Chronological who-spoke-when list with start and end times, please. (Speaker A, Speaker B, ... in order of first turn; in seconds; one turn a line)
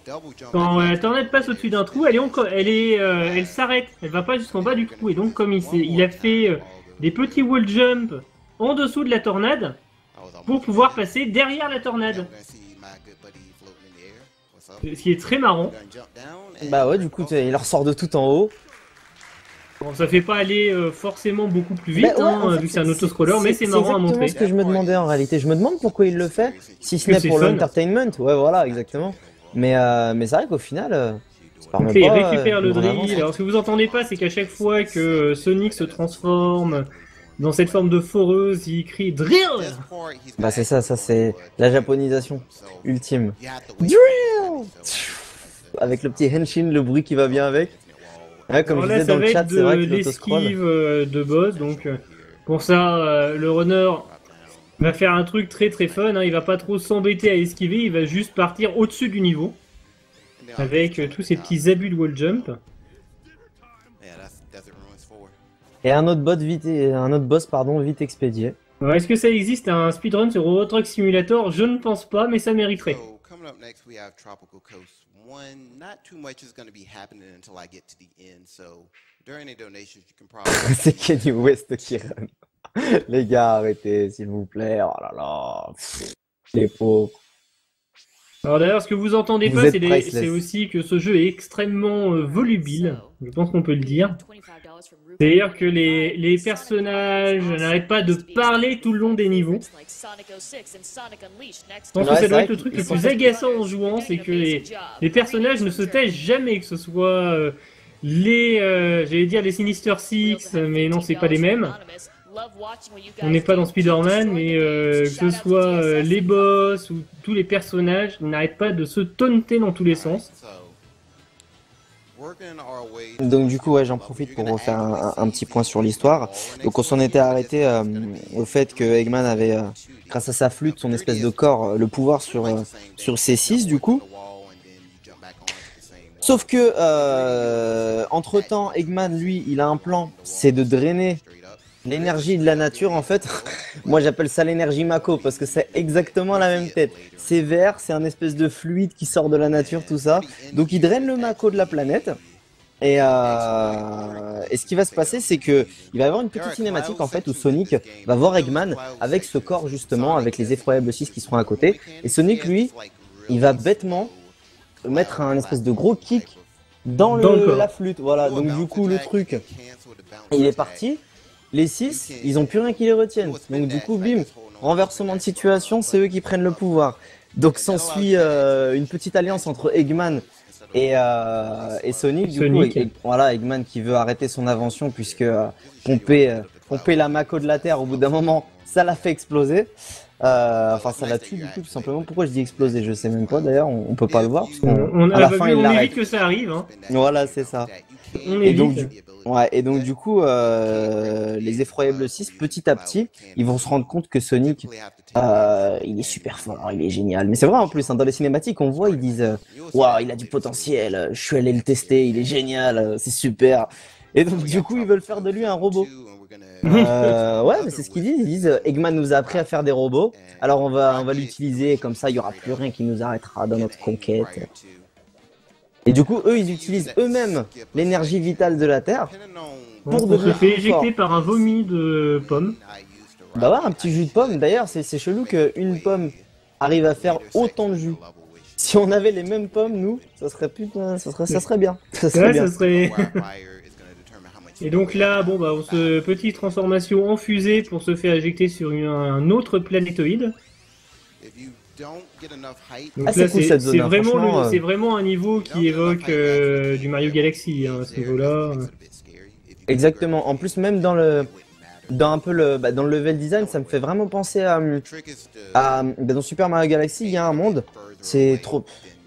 Speaker A: 0.5-9.8
Speaker A: 10.5-12.3
Speaker A: 14.8-15.8
Speaker B: 16.6-18.5
Speaker A: 19.8-24.4
Speaker B: 22.0-33.2
Speaker A: 27.1-27.7
Speaker A: 31.8-36.9
Speaker A: 37.4-39.9
Speaker B: 40.4-47.7
Speaker B: 48.5-50.6
Speaker A: 48.6-54.1
Speaker A: 54.8-59.6
Speaker A: 60.6-62.6
Speaker B: 65.8-68.6
Speaker A: 68.8-73.0
Speaker B: 80.5-87.2
Speaker A: 88.4-94.2
Speaker B: 89.5-90.3
Speaker A: 95.2-99.7
Speaker A: 101.9-111.8
Speaker B: 102.0-103.3
Speaker A: 113.2-120.3
Speaker B: 123.2-134.1
Speaker B: 136.2-141.2
Speaker B: 141.8-152.2
Speaker B: 152.8-162.7
Speaker B: 163.3-164.1
Speaker B: 164.8-169.4
Speaker A: 167.0-167.7
Speaker B: 170.3-171.0
Speaker B: 171.5-189.7
Speaker A: 182.2-182.9
Speaker B: 190.2-195.9
Speaker A: 194.6-196.7
Speaker B: 196.9-197.7
Speaker A: 198.1-198.9
Speaker B: 198.4-215.9
Speaker B: 216.6-224.5
Speaker A: 216.6-217.2
Speaker B: 225.9-229.1
Speaker A: 229.8-232.6
Speaker B: 229.9-230.9
Speaker B: 233.3-238.0
Speaker B: 238.6-242.5
Speaker A: 242.1-243.2
Speaker A: 244.6-250.3
Speaker A: 253.0-258.7
Speaker B: 253.1-254.6
Speaker B: 259.7-261.3
Speaker B: 261.9-264.8
Speaker B: 265.5-268.7